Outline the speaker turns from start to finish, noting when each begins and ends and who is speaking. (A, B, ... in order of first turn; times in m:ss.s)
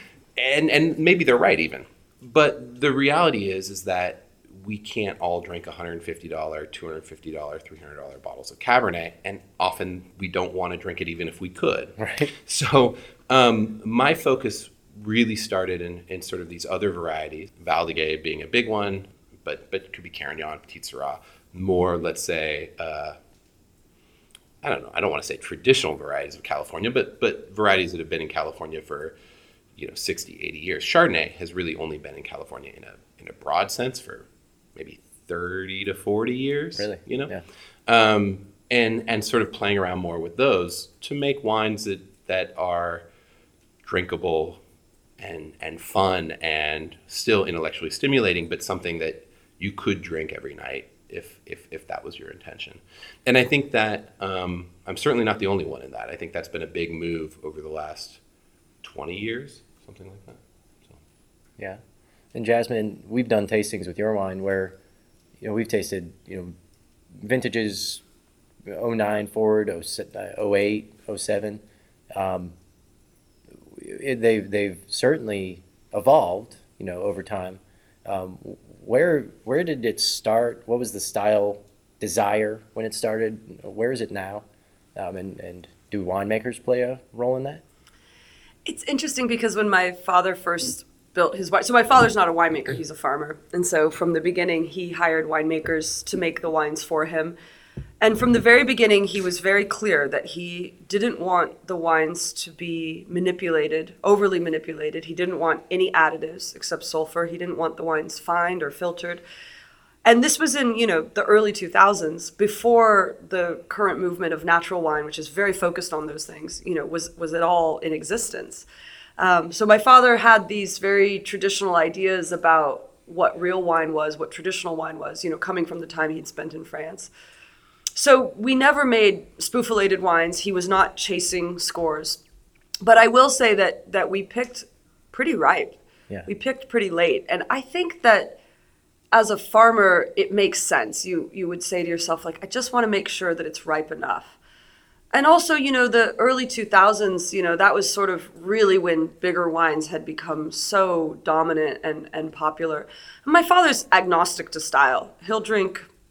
0:00.4-0:23.2 A
0:12.0-0:12.3 B
0:24.6-0:29.1 A
0:29.8-0:37.3 A
0:36.8-0:37.4 B
0:37.9-0:43.0 A
0:43.8-0:44.6 A
0:45.2-0:58.2 A
0:58.8-1:01.0 A
1:02.3-1:04.8 B
1:05.4-1:06.5 B
1:07.1-1:08.0 B
1:08.7-1:11.6 B
1:12.1-1:12.6 B
1:13.6-1:24.4 B
1:25.0-1:27.6 B
1:28.6-1:37.4 C
1:38.0-1:49.2 C
1:50.0-1:58.7 C
1:59.2-2:07.1 C
2:08.0-2:12.2 C
2:12.8-2:18.4 C
2:19.1-2:24.4 C
2:25.1-2:35.9 C